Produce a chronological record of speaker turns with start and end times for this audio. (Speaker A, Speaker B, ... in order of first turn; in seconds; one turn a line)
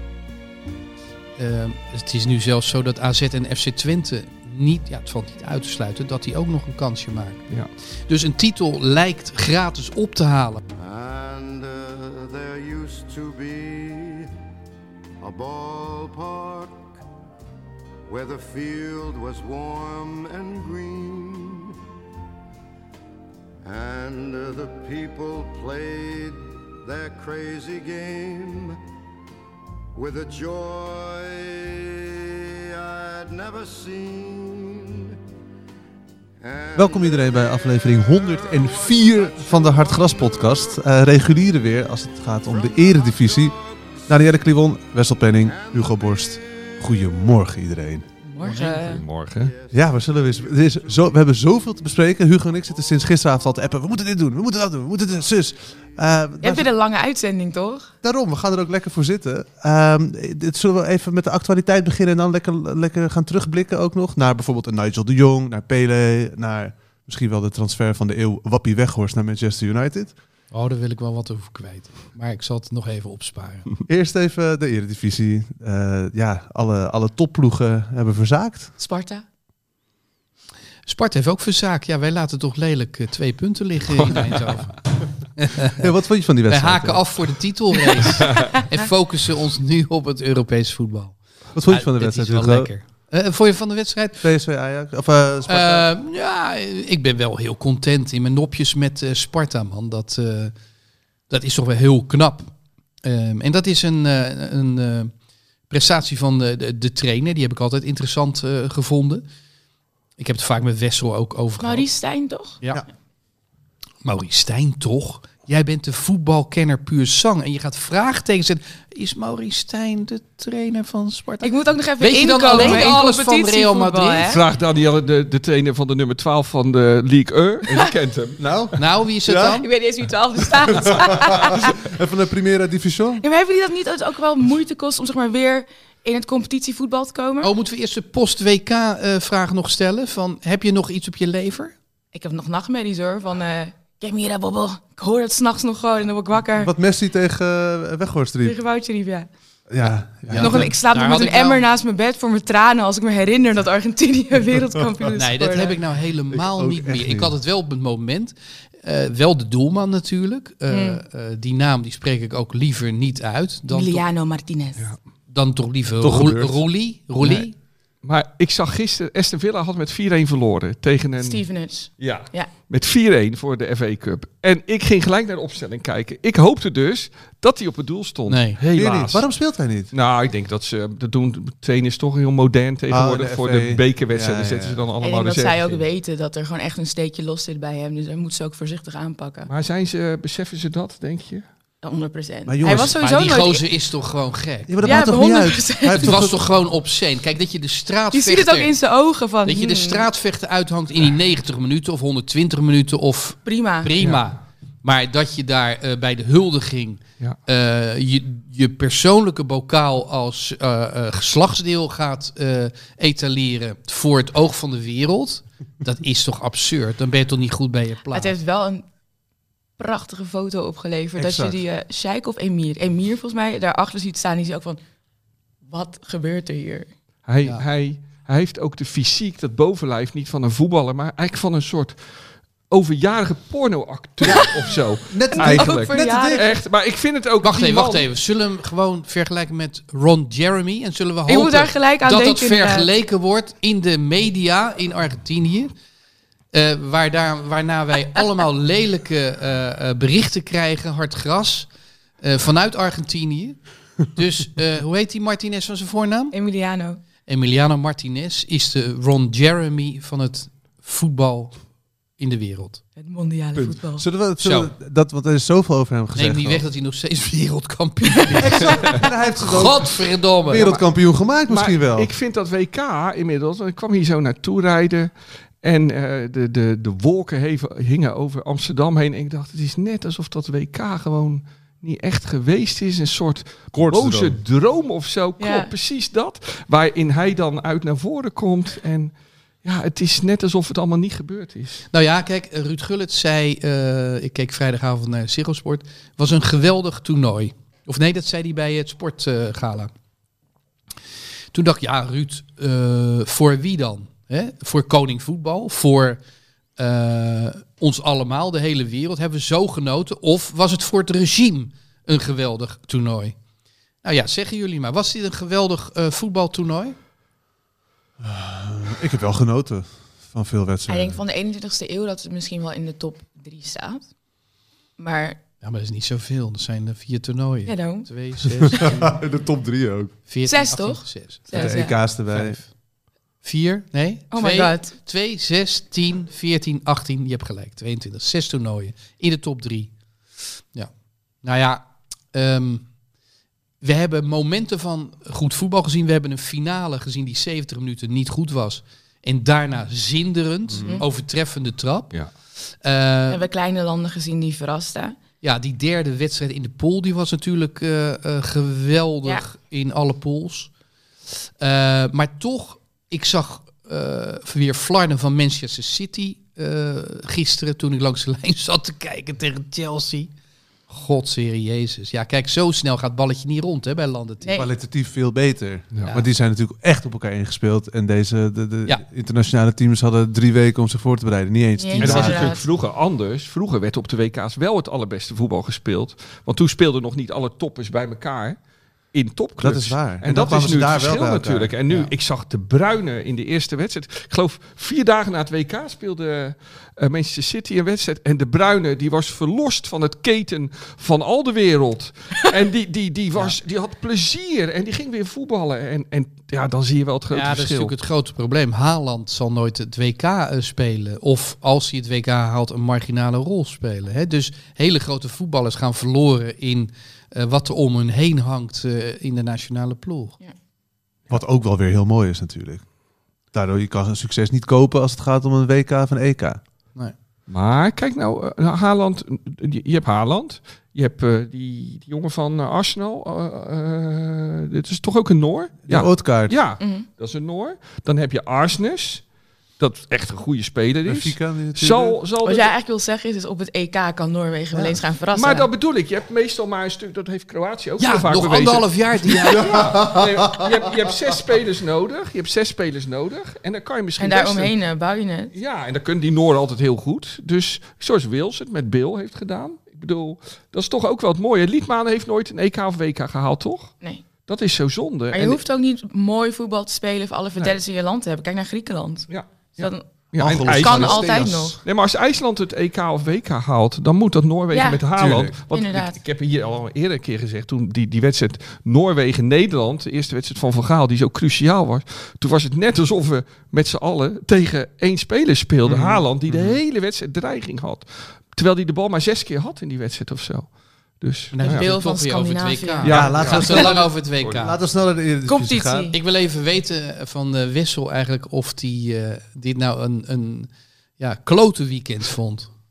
Speaker A: 1.4-7.5
Speaker A: 8.1-10.6
Speaker B: 10.8-14.3
Speaker B: 15.2-17.0
Speaker B: 18.1-21.7
Speaker B: 23.6-28.8
Speaker B: 29.9-35.1
Speaker B: 36.4-40.9
Speaker C: 36.7-43.5
Speaker B: 42.5-44.1
Speaker C: 44.1-48.0
Speaker B: 45.5-47.0
Speaker D: 48.2-49.0
Speaker A: 48.4-48.9
Speaker E: 48.6-49.5
Speaker B: 49.4-51.2
Speaker C: 49.7-56.7
Speaker D: 56.4-57.9
Speaker C: 58.0-70.1
Speaker A: 70.5-73.7
Speaker C: 73.9-78.7
Speaker D: 78.8-79.2
Speaker A: 80.8-84.7
Speaker E: 84.0-84.5
Speaker A: 85.4-85.8
Speaker C: 85.7-87.3
Speaker A: 86.5-94.2
Speaker C: 91.5-92.7
Speaker C: 94.2-95.9
Speaker A: 95.5-100.5
Speaker A: 101.3-105.1
Speaker A: 105.7-109.2
Speaker A: 110.2-111.9
Speaker D: 111.6-112.6
Speaker A: 114.0-124.3
Speaker D: 121.4-124.4
Speaker E: 122.5-123.0
Speaker E: 124.2-128.4
Speaker C: 128.4-129.6
Speaker A: 128.8-129.7
Speaker D: 129.6-131.8
Speaker C: 130.4-133.2
Speaker D: 133.2-137.5
Speaker A: 137.4-141.7
Speaker D: 142.1-146.7
Speaker C: 146.6-148.6
Speaker D: 148.4-149.3
Speaker C: 149.7-150.7
Speaker A: 150.2-151.6
Speaker D: 150.4-155.8
Speaker A: 155.1-164.0
Speaker C: 156.3-157.3
Speaker D: 160.7-161.0
Speaker D: 163.7-164.9
Speaker A: 165.3-167.5
Speaker C: 166.0-166.6
Speaker E: 167.2-167.5
Speaker E: 168.0-171.4
Speaker D: 171.2-172.5
Speaker E: 172.0-179.2
Speaker A: 178.3-178.6
Speaker C: 178.7-179.9
Speaker E: 179.9-185.9
Speaker C: 182.9-184.8
Speaker D: 185.0-189.5
Speaker E: 189.5-191.4
Speaker D: 191.8-193.6
Speaker C: 192.4-193.0
Speaker A: 192.7-194.9
Speaker C: 194.7-196.4
Speaker D: 194.8-196.2
Speaker A: 195.9-198.7
Speaker D: 198.1-200.1
Speaker A: 199.4-218.3
Speaker D: 203.4-203.9
Speaker D: 218.1-218.8
Speaker D: 219.8-224.8
Speaker C: 221.2-221.6
Speaker D: 225.7-226.9
Speaker E: 227.3-232.0
Speaker E: 232.7-238.0
Speaker D: 234.2-234.6
Speaker C: 235.1-236.4
Speaker D: 235.3-236.5
Speaker A: 237.4-245.7
Speaker D: 241.3-242.9
Speaker A: 246.5-251.7
Speaker A: 252.2-256.4
Speaker D: 256.3-257.0
Speaker A: 257.3-261.5
Speaker A: 262.2-262.8
Speaker D: 263.0-264.0
Speaker C: 263.6-266.6
Speaker A: 264.4-264.7
Speaker A: 266.1-270.7
Speaker C: 268.3-272.1
Speaker E: 270.5-270.8
Speaker E: 271.5-275.1
Speaker E: 275.6-289.1
Speaker C: 283.7-284.4
Speaker D: 285.4-285.7
Speaker E: 289.6-291.8
Speaker A: 291.9-299.9
Speaker A: 301.5-306.2
Speaker A: 306.8-313.4
Speaker A: 314.0-316.9
Speaker C: 318.2-321.2
Speaker D: 320.9-324.0
Speaker D: 325.0-325.4
Speaker A: 325.6-329.2
Speaker D: 327.6-328.1
Speaker C: 328.6-330.1
Speaker A: 330.3-332.7
Speaker D: 330.4-331.9
Speaker C: 331.5-332.6
Speaker A: 333.4-339.9
Speaker D: 334.3-334.9
Speaker A: 341.4-342.9
Speaker A: 343.8-352.1
Speaker C: 350.7-351.0
Speaker A: 352.8-353.4
Speaker D: 353.3-355.2
Speaker A: 355.4-360.7
Speaker A: 361.6-370.3
Speaker A: 370.9-374.6
Speaker D: 374.4-374.7
Speaker C: 374.5-382.6
Speaker D: 381.8-382.6
Speaker E: 382.0-388.6
Speaker E: 389.1-407.9
Speaker C: 389.6-391.7
Speaker A: 407.3-420.4
Speaker C: 421.3-422.8
Speaker C: 423.5-426.6
Speaker E: 427.5-439.2
Speaker C: 435.9-436.6
Speaker D: 436.8-437.1
Speaker E: 439.8-442.7
Speaker C: 441.1-442.2
Speaker D: 442.4-445.7
Speaker E: 445.3-454.7
Speaker A: 448.0-449.8
Speaker C: 449.6-450.8
Speaker D: 454.2-455.5
Speaker E: 455.5-463.9
Speaker E: 464.5-465.6
Speaker D: 465.3-469.3
Speaker E: 469.3-490.7
Speaker C: 470.4-471.8
Speaker D: 470.8-471.8
Speaker D: 474.7-475.0
Speaker C: 475.2-475.6
Speaker D: 475.7-476.2
Speaker C: 485.9-486.8
Speaker E: 491.2-491.9
Speaker A: 491.5-494.8
Speaker D: 491.6-493.3
Speaker E: 493.0-494.6
Speaker C: 493.0-496.1
Speaker D: 495.4-496.1
Speaker A: 496.1-502.7